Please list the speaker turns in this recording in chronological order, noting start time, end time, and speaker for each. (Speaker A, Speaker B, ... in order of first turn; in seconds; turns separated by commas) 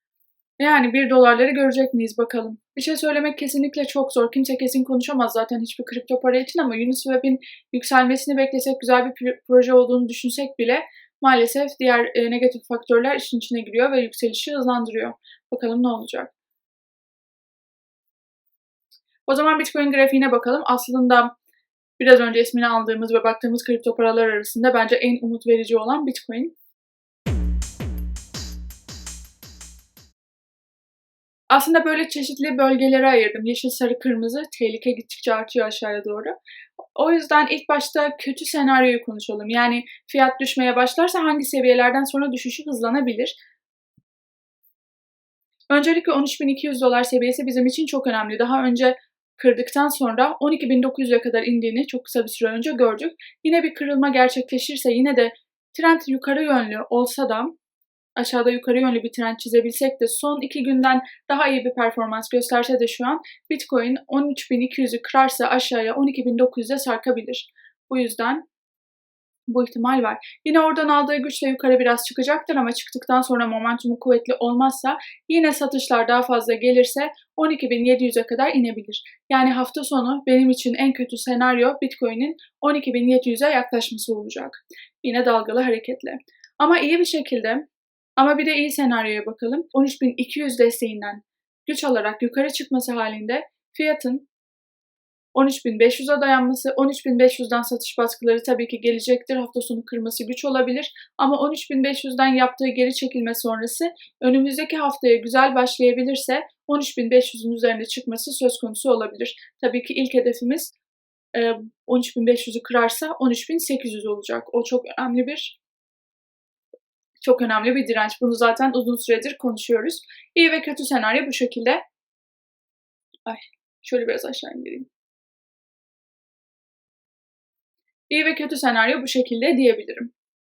Speaker A: 0.6-16.3, Speaker A: 19.3-21.3, Speaker A: 22.0-26.5, Speaker A: 31.5-36.4, Speaker A: 37.0-43.4, Speaker A: 45.7-57.5, Speaker A: 58.2-68.5, Speaker A: 69.5-94.3, Speaker A: 95.3-110.7, Speaker A: 111.3-115.6, Speaker A: 117.2-121.8, Speaker A: 123.3-124.9, Speaker A: 128.1-130.1